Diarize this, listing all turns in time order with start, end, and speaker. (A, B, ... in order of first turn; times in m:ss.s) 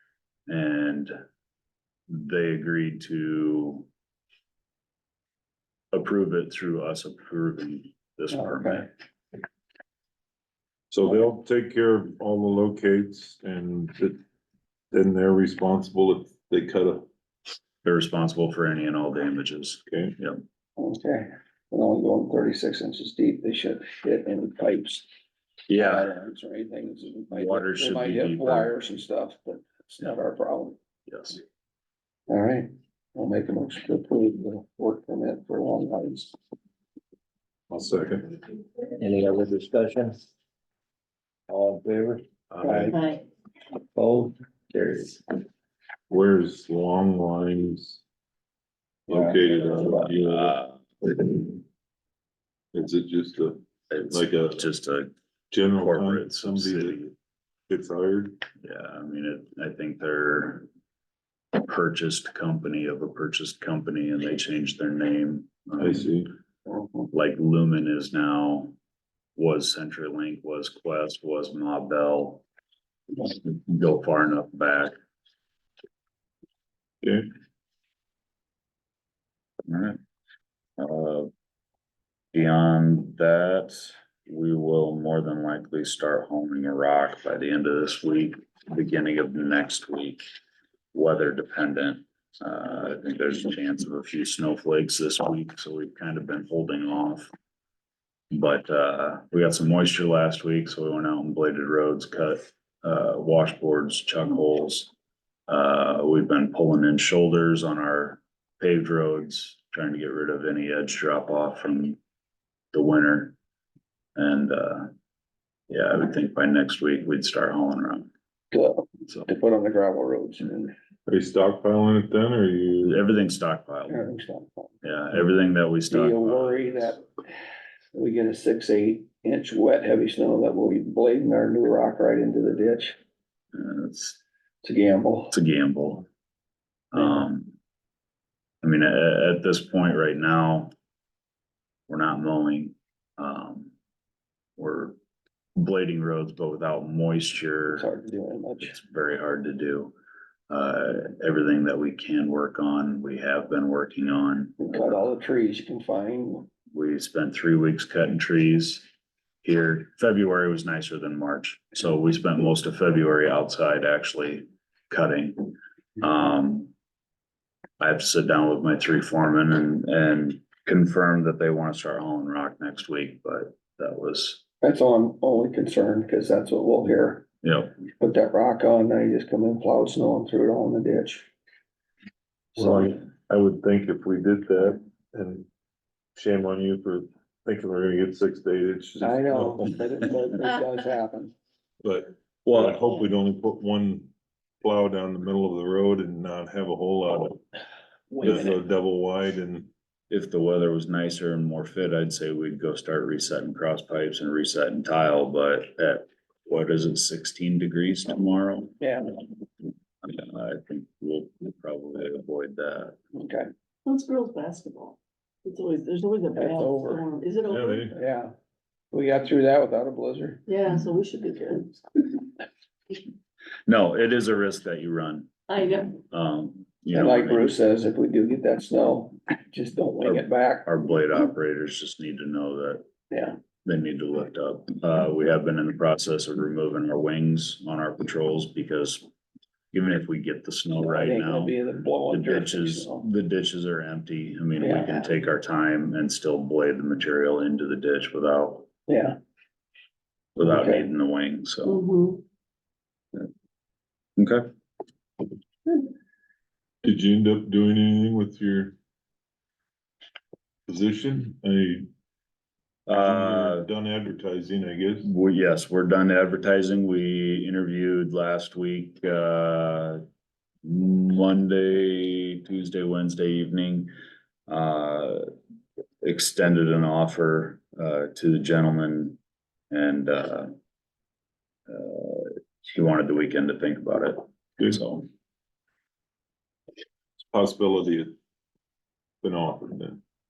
0:00.5-0:01.1 A
0:02.1-0:03.9 A
0:05.9-0:08.9 A
0:08.3-0:08.8 B
0:10.9-0:14.2 C
0:14.9-0:17.1 C
0:17.8-0:20.4 A
0:19.9-0:20.2 C
0:20.8-0:25.1 B
0:25.7-0:26.1 A
0:25.8-0:30.8 B
0:27.3-0:28.7 A
0:31.1-0:31.4 A
0:32.3-0:36.3 B
0:37.7-0:38.4 C
0:39.0-0:40.2 D
0:41.5-0:42.9 D
0:42.5-0:43.0 C
0:42.9-0:43.2 E
0:43.9-0:45.2 D
0:46.1-0:48.0 C
0:49.1-0:50.6 C
0:49.1-0:49.4 B
0:49.8-0:51.1 A
0:52.7-0:54.7 C
0:53.9-0:55.1 A
0:55.5-0:57.1 C
0:55.8-0:57.1 A
0:57.7-0:58.4 C
0:58.6-1:00.7 A
1:01.6-1:06.1 A
1:05.8-1:06.3 C
1:07.1-1:08.8 A
1:09.4-1:12.4 A
1:13.2-1:14.9 A
1:17.0-1:17.3 C
1:19.7-1:20.0 A
1:20.8-1:21.3 A
1:22.3-1:30.2 A
1:30.9-1:37.3 A
1:38.3-1:44.9 A
1:45.5-1:52.0 A
1:52.7-1:53.4 A
1:54.2-1:54.9 A
1:55.7-1:58.1 A
1:58.5-2:00.7 B
2:01.1-2:03.0 C
2:02.8-2:04.1 A
2:03.9-2:04.8 B
2:04.8-2:07.0 A
2:05.9-2:07.1 B
2:07.9-2:13.0 B
2:13.5-2:14.2 A
2:14.6-2:15.3 B
2:15.3-2:16.1 A
2:16.9-2:17.5 A
2:18.6-2:20.7 A
2:21.9-2:23.7 A
2:24.6-2:25.0 A
2:25.6-2:27.9 A
2:27.8-2:28.7 B
2:28.6-2:29.9 A
2:30.5-2:35.0 A
2:34.6-2:36.5 B
2:36.7-2:38.8 A
2:39.4-2:46.7 A
2:47.8-2:54.4 A
2:54.6-2:57.2 B
2:57.4-2:57.7 A
2:58.0-3:01.3 B
3:02.6-3:05.5 C
3:02.6-3:02.9 B
3:06.2-3:09.9 C
3:09.0-3:11.3 B
3:11.8-3:14.1 C
3:12.5-3:12.8 A
3:14.6-3:17.4 C
3:18.1-3:18.5 B
3:18.2-3:19.7 C
3:20.1-3:28.8 A
3:28.8-3:29.1 B
3:30.0-3:33.0 A
3:33.2-3:33.5 B
3:33.9-3:37.9 E
3:36.4-3:37.0 B
3:37.5-3:38.0 C
3:37.9-3:38.3 B
3:38.9-3:40.4 B
3:40.5-3:41.8 E
3:43.7-3:45.3 A
3:45.5-3:46.0 E
3:46.0-3:47.6 A
3:46.9-3:50.7 B
3:50.0-3:52.8 A
3:53.1-3:53.4 B
3:53.6-3:59.0 A
3:59.7-4:01.6 A
4:00.8-4:03.1 B
4:02.1-4:08.7 A
4:04.6-4:05.1 B
4:08.9-4:09.2 B
4:10.4-4:11.8 A
4:10.4-4:10.9 B
4:11.6-4:12.2 E
4:14.2-4:14.5 A
4:16.8-4:18.8 C
4:20.7-4:21.9 C
4:22.9-4:23.7 A
4:22.9-4:25.1 C
4:25.0-4:30.0 A
4:30.6-4:33.9 A
4:34.5-4:35.3 A
4:36.0-4:39.2 A
4:39.7-4:40.5 A
4:41.7-4:45.1 A
4:47.2-4:48.1 C
4:49.2-4:50.0 C